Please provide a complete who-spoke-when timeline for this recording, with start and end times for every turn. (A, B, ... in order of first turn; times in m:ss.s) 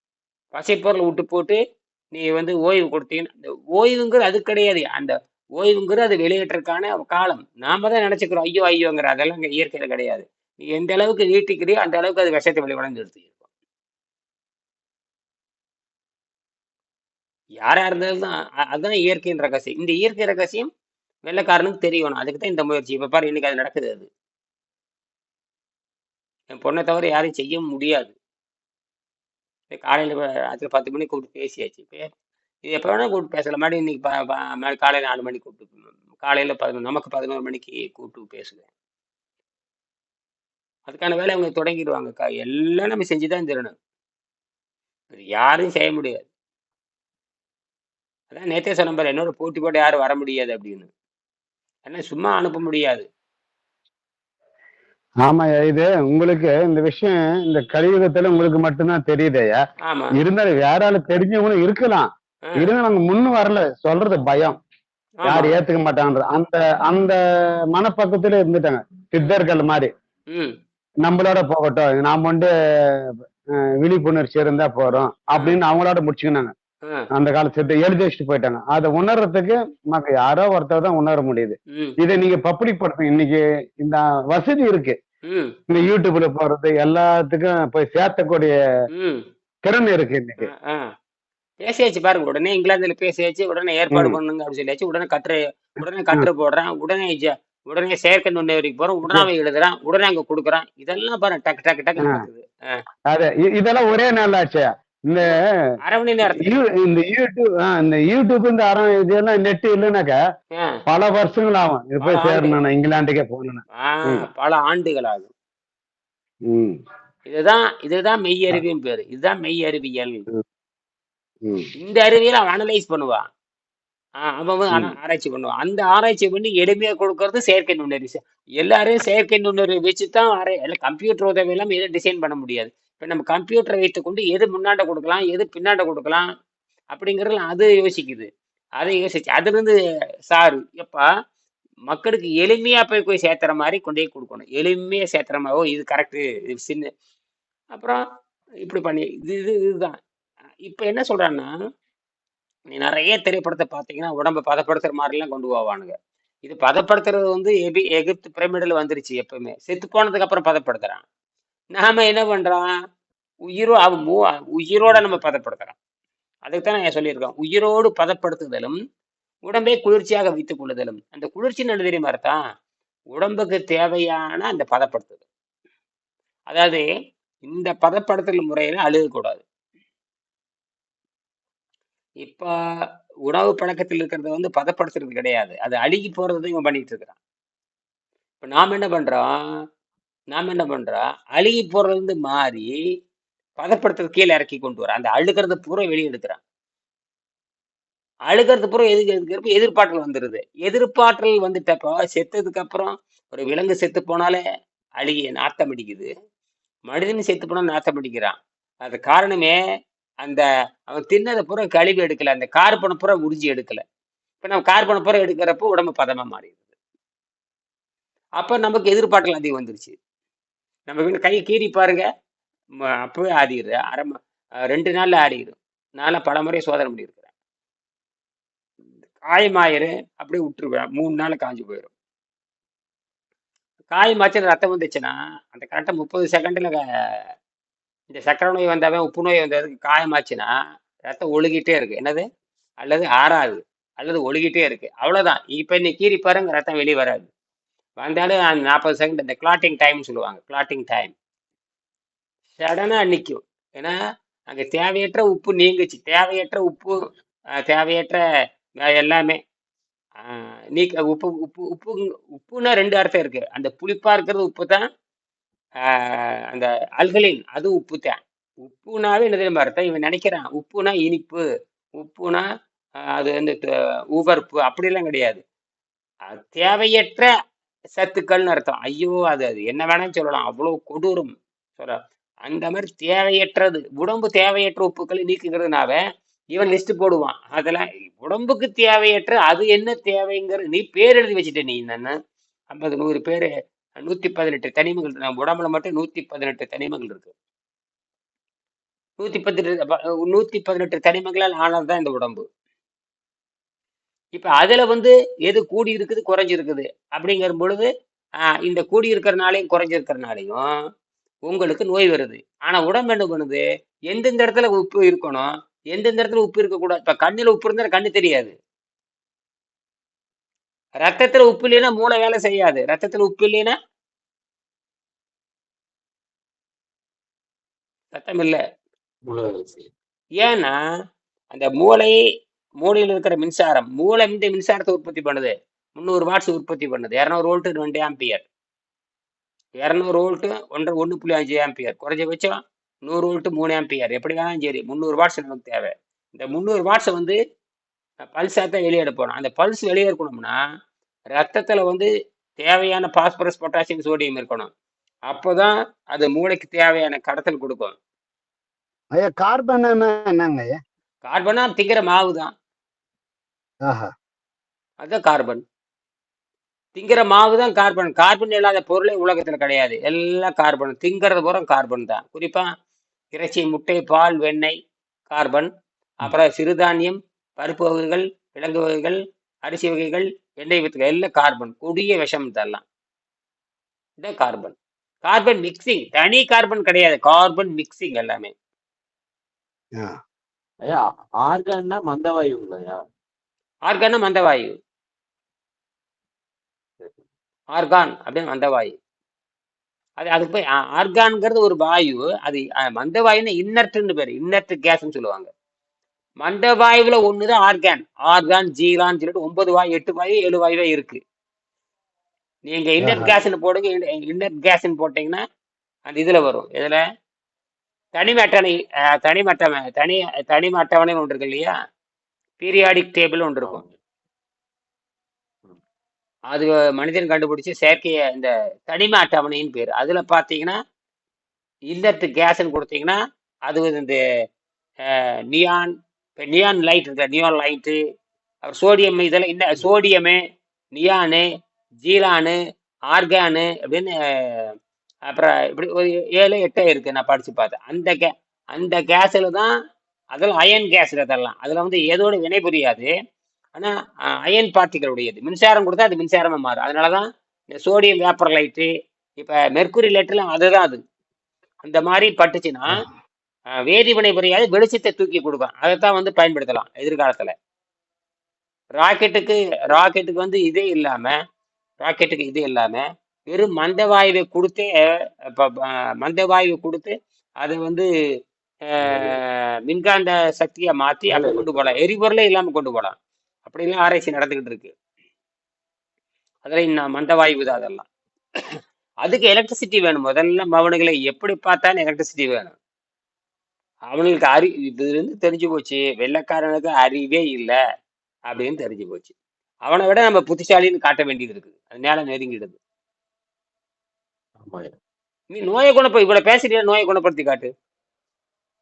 0:00.5-0:01.6 A
0:02.1-0:13.4 A
0:17.6-0:20.7 A
0:21.2-0:24.1 A
0:26.5-0:28.1 A
0:29.7-0:32.1 A
0:32.6-0:38.6 A
0:40.9-0:43.7 A
0:45.1-0:46.3 A
0:48.3-0:50.9 A
0:51.8-0:53.0 A
0:55.2-0:59.6 B
0:59.8-1:00.1 A
1:00.1-1:02.0 B
1:02.6-1:04.6 B
1:05.2-1:05.6 A
1:05.2-1:07.2 B
1:07.7-1:09.9 B
1:11.0-1:13.2 B
1:13.8-1:16.5 B
1:17.1-1:25.0 B
1:25.2-1:25.5 A
1:25.7-1:28.5 B
1:28.9-1:29.2 A
1:29.6-1:30.5 B
1:30.4-1:30.9 A
1:31.6-1:42.8 A
1:33.9-1:34.2 B
1:42.0-1:42.2 B
1:43.1-1:45.3 B
1:45.8-1:46.5 A
1:46.4-1:50.2 B
1:50.9-1:54.2 B
1:52.0-1:52.6 A
1:53.8-1:55.3 A
1:56.5-1:56.8 B
1:57.2-2:00.2 A
2:01.8-2:03.2 A
2:04.2-2:16.2 A
2:16.9-2:18.3 A
2:18.8-2:19.7 A
2:20.3-2:21.0 A
2:21.9-2:26.9 A
2:27.7-2:28.0 A
2:28.6-2:30.0 A
2:30.6-2:31.5 A
2:32.7-2:41.0 A
2:41.7-2:42.7 A
2:43.5-2:45.7 A
2:46.4-2:48.8 A
2:49.4-2:52.4 A
2:53.1-2:55.2 A
2:56.5-2:56.8 A
2:57.4-2:59.4 A
3:02.2-3:02.5 A
3:03.2-3:07.2 A
3:08.4-3:09.3 A
3:10.3-3:12.7 A
3:13.6-3:16.4 A
3:18.3-3:24.4 A
3:25.0-3:26.1 A
3:26.9-3:29.6 A
3:30.2-3:33.8 A
3:34.4-3:36.6 A
3:38.4-3:40.0 A
3:40.9-3:42.0 A
3:43.0-3:44.2 A
3:44.7-3:47.3 A
3:49.2-3:51.9 A
3:53.9-3:56.8 A
3:58.1-4:00.5 A
4:01.0-4:02.2 A
4:02.8-4:07.3 A
4:08.0-4:11.1 A
4:12.6-4:13.9 A
4:14.5-4:17.1 A
4:17.6-4:18.2 A
4:18.8-4:19.4 A
4:20.2-4:24.8 A
4:25.8-4:31.4 A
4:32.0-4:32.4 A
4:33.1-4:33.6 A
4:34.1-4:35.4 A
4:36.3-4:37.3 A
4:38.0-4:46.0 A
4:46.5-4:52.1 A
4:52.7-4:53.5 A
4:54.0-4:57.3 A
4:59.2-5:02.4 A
5:04.3-5:07.9 A
5:08.4-5:10.6 A
5:11.4-5:18.5 A
5:21.0-5:23.8 A
5:28.1-5:28.6 A
5:29.3-5:29.9 C
5:30.4-5:30.8 A
5:31.5-5:32.2 A
5:32.8-5:38.4 A
5:39.8-5:47.4 A
5:48.2-5:50.6 A
5:51.3-5:54.7 A
5:55.3-5:58.0 A
5:59.1-6:00.8 B
6:01.2-6:02.5 A
6:03.8-6:04.1 B
6:05.0-6:05.6 A
6:06.9-6:12.7 A
6:13.3-6:14.7 A
6:15.3-6:22.8 A
6:24.2-6:28.5 A
6:30.8-6:33.0 C
6:33.9-6:34.7 A
6:37.7-6:38.9 A
6:40.2-6:45.5 A
6:46.4-6:51.2 A
6:52.7-6:55.4 A
6:53.0-6:53.3 B
6:56.1-6:57.0 A
6:58.1-7:01.7 A
7:02.6-7:03.8 A
7:03.6-7:04.0 C
7:06.5-7:10.8 A
7:11.9-7:13.2 A
7:13.7-7:14.2 A
7:15.0-7:18.0 A
7:18.6-7:20.4 A
7:20.9-7:21.5 A
7:22.0-7:22.6 A
7:23.1-7:24.7 A
7:25.3-7:29.7 A
7:30.3-7:33.1 A
7:33.7-7:41.0 A
7:41.8-7:43.0 A
7:43.8-7:47.5 A
7:49.0-7:51.4 A
7:52.0-7:58.0 A
7:58.9-8:04.9 A
7:59.0-7:59.4 C
8:01.3-8:02.0 C
8:06.6-8:08.0 A
8:09.2-8:12.8 A
8:14.1-8:17.8 A
8:18.5-8:19.3 A
8:19.8-8:22.8 A
8:24.6-8:25.0 C
8:25.5-8:27.7 A